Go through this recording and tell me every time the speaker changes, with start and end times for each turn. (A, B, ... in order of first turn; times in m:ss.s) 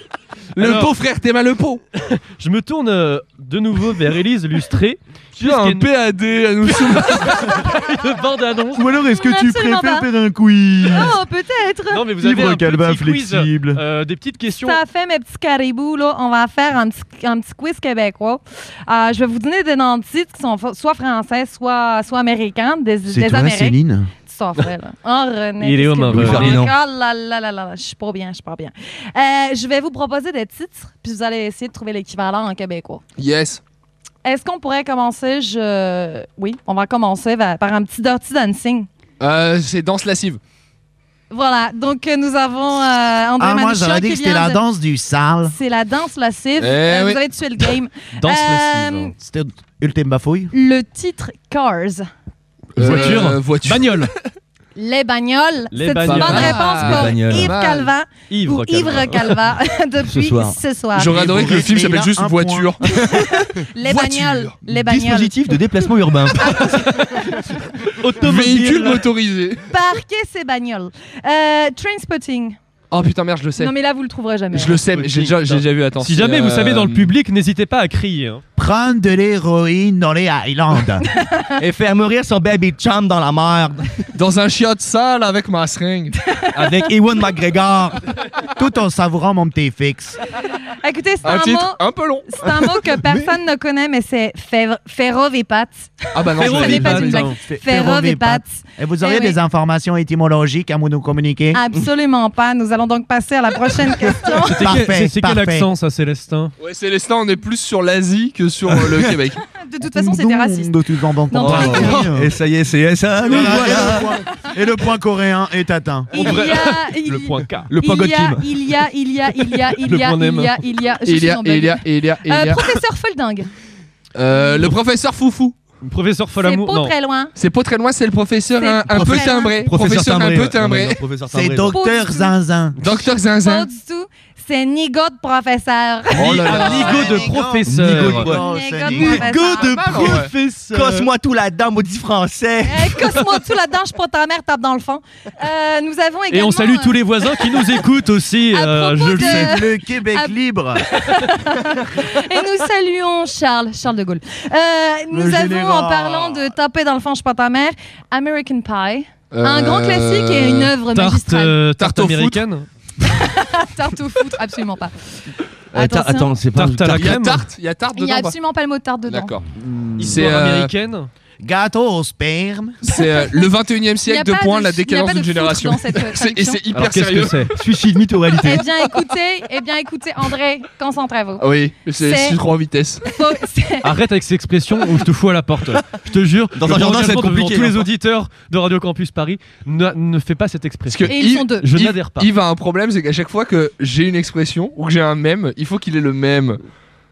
0:00.6-0:01.8 A
0:00.6-0:00.9 B
0:02.0-0:05.9 B
0:05.4-0:07.5 A
0:06.6-0:08.9 B
0:08.7-0:11.2 C
0:09.0-0:10.1 D
0:10.9-0:12.0 D
0:11.9-0:14.8 B
0:12.2-0:13.8 C
0:14.6-0:33.0 D
0:23.1-0:24.1 C
0:25.6-0:26.6 B
0:26.1-0:26.7 E
0:33.2-0:33.6 A
0:34.2-0:38.9 D
0:39.2-0:40.4 A
0:41.3-0:44.6 D
0:43.4-0:45.6 C
0:45.4-0:49.1 D
0:46.6-0:47.2 A
0:48.2-0:49.1 B
0:49.2-0:50.5 C
0:50.5-0:52.1 D
0:52.8-0:54.1 A
0:52.8-0:54.1 B
0:52.8-0:53.2 D
0:54.8-1:01.2 D
0:55.7-0:56.9 B
0:56.0-0:57.9 A
0:56.8-0:57.6 E
0:58.3-0:59.4 B
1:00.1-1:00.6 E
1:01.0-1:03.3 A
1:01.1-1:02.7 C
1:02.8-1:05.6 D
1:03.8-1:04.6 A
1:04.7-1:06.5 E
1:06.4-1:07.4 D
1:06.9-1:09.1 B
1:08.2-1:09.6 A
1:09.7-1:12.6 D
1:12.9-1:13.7 A
1:13.6-1:14.8 D
1:14.5-1:17.2 A
1:14.9-1:18.4 B
1:18.6-1:21.1 C
1:21.1-1:21.6 D
1:21.6-1:24.0 E
1:24.1-1:26.2 A
1:26.2-1:26.9 D
1:26.5-1:28.0 E
1:28.6-1:30.2 C
1:30.7-1:39.4 D
1:31.2-1:32.3 A
1:36.1-1:37.3 A
1:36.4-1:37.4 B
1:36.7-1:41.6 C
1:41.5-1:44.7 D
1:44.0-1:45.7 C
1:44.4-1:46.5 B
1:46.6-1:49.4 A
1:48.8-1:49.1 E
1:49.5-1:52.0 D
1:49.8-1:52.3 C
1:51.4-1:54.1 E
1:53.2-1:56.1 C
1:56.1-2:03.5 D
1:56.1-1:57.7 B
1:57.7-1:58.5 E
1:59.5-2:00.6 B
2:01.0-2:02.7 A
2:04.2-2:05.6 A
2:05.8-2:06.9 B
2:06.4-2:07.3 D
2:07.4-2:11.0 A
2:08.6-2:09.7 D
2:08.9-2:11.8 E
2:11.3-2:12.8 C
2:11.7-2:12.3 D
2:12.8-2:13.7 A
2:13.3-2:17.1 D
2:16.2-2:23.3 E
2:16.2-2:18.4 B
2:16.2-2:16.8 A
2:16.3-2:19.3 C
2:18.3-2:20.1 D
2:19.6-2:20.3 A
2:22.7-2:27.8 D
2:26.3-2:29.5 B
2:28.5-2:30.4 D
2:29.2-2:30.9 C
2:30.9-2:41.6 D
2:35.1-2:36.3 C
2:39.3-2:40.7 A
2:40.9-2:42.7 B
2:41.8-2:42.4 A
2:43.0-2:45.0 D
2:45.7-2:46.3 D
2:45.7-2:47.2 E
2:46.6-2:47.5 B
2:46.9-2:48.4 A
2:47.9-2:49.4 D
2:49.1-2:49.4 A
2:49.6-2:50.3 C
2:50.0-2:50.7 A
2:50.0-2:51.1 B
2:51.4-2:52.8 C
2:52.8-2:57.6 A
2:52.9-2:56.6 D
2:56.7-2:57.5 B
2:57.6-2:58.7 E
2:58.4-3:02.4 D
3:01.4-3:03.2 A
3:03.0-3:03.9 D
3:03.8-3:12.3 B
3:06.6-3:07.9 E
3:10.9-3:16.6 A
3:11.1-3:11.7 D